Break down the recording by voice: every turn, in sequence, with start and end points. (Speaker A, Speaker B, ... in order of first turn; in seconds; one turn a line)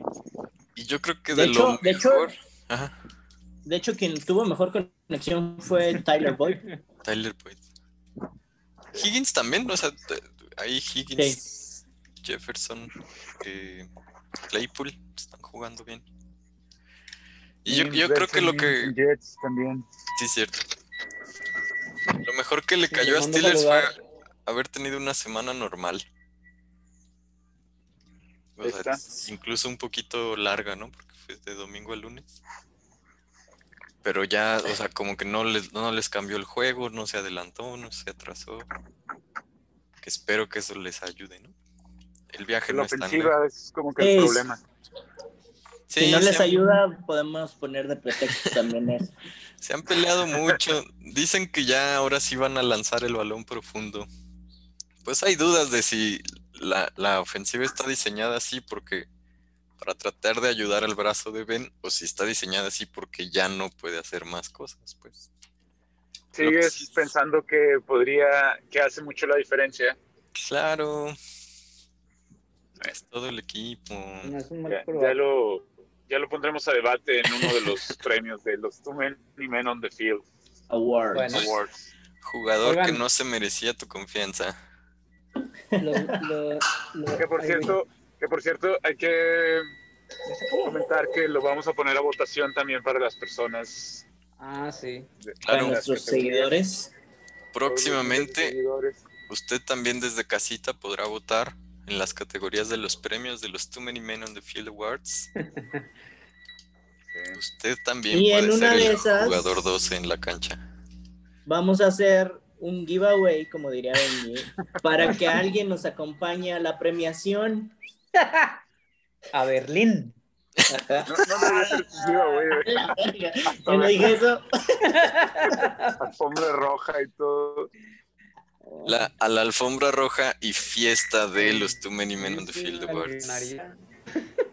Speaker A: 0.7-2.9
Speaker B: 1.3-2.3
Speaker B: 3.6-6.6
Speaker A: 7.0-7.6
Speaker A: 8.9-11.4
Speaker B: 11.2-11.5
Speaker A: 12.2-13.9
Speaker A: 14.5-16.1
Speaker A: 17.6-18.9
Speaker C: 17.7-19.9
Speaker A: 20.1-20.7
Speaker A: 22.2-23.9
Speaker D: 22.9-24.0
Speaker A: 24.4-26.0
Speaker A: 28.6-32.4
Speaker C: 28.6-29.0
Speaker A: 34.0-38.7
Speaker A: 40.0-41.5
Speaker A: 42.3-43.3
Speaker C: 42.7-44.6
Speaker B: 44.0-44.4
Speaker A: 45.9-46.6
Speaker B: 46.0-49.1
Speaker A: 48.3-48.6
Speaker A: 49.6-54.1
Speaker A: 55.0-59.1
Speaker A: 59.8-65.3
Speaker C: 66.3-70.0
Speaker A: 66.4-66.9
Speaker A: 70.3-71.2
Speaker A: 72.8-74.3
Speaker D: 74.2-75.2
Speaker C: 74.7-80.2
Speaker B: 80.7-81.5
Speaker D: 81.1-81.5
Speaker C: 81.3-81.9
Speaker A: 82.2-84.6
Speaker D: 82.6-83.0
Speaker B: 85.7-86.2
Speaker D: 85.8-87.7
Speaker C: 87.2-89.7
Speaker D: 90.2-90.8
Speaker C: 90.6-94.0
Speaker D: 94.4-95.1
Speaker C: 95.2-96.6
Speaker A: 95.5-95.8
Speaker B: 95.5-96.9
Speaker A: 97.5-98.5
Speaker C: 97.7-99.0
Speaker A: 99.3-105.3
Speaker D: 105.5-105.8
Speaker C: 107.1-107.4
Speaker A: 107.3-110.6
Speaker B: 108.1-109.6
Speaker B: 111.5-117.7
Speaker D: 118.2-118.6
Speaker D: 119.3-120.2
Speaker B: 120.7-124.9
Speaker C: 121.0-122.9
Speaker C: 123.6-124.2
Speaker D: 124.8-126.0
Speaker C: 126.0-127.7
Speaker D: 128.7-129.1
Speaker A: 128.8-133.5
Speaker D: 131.4-133.8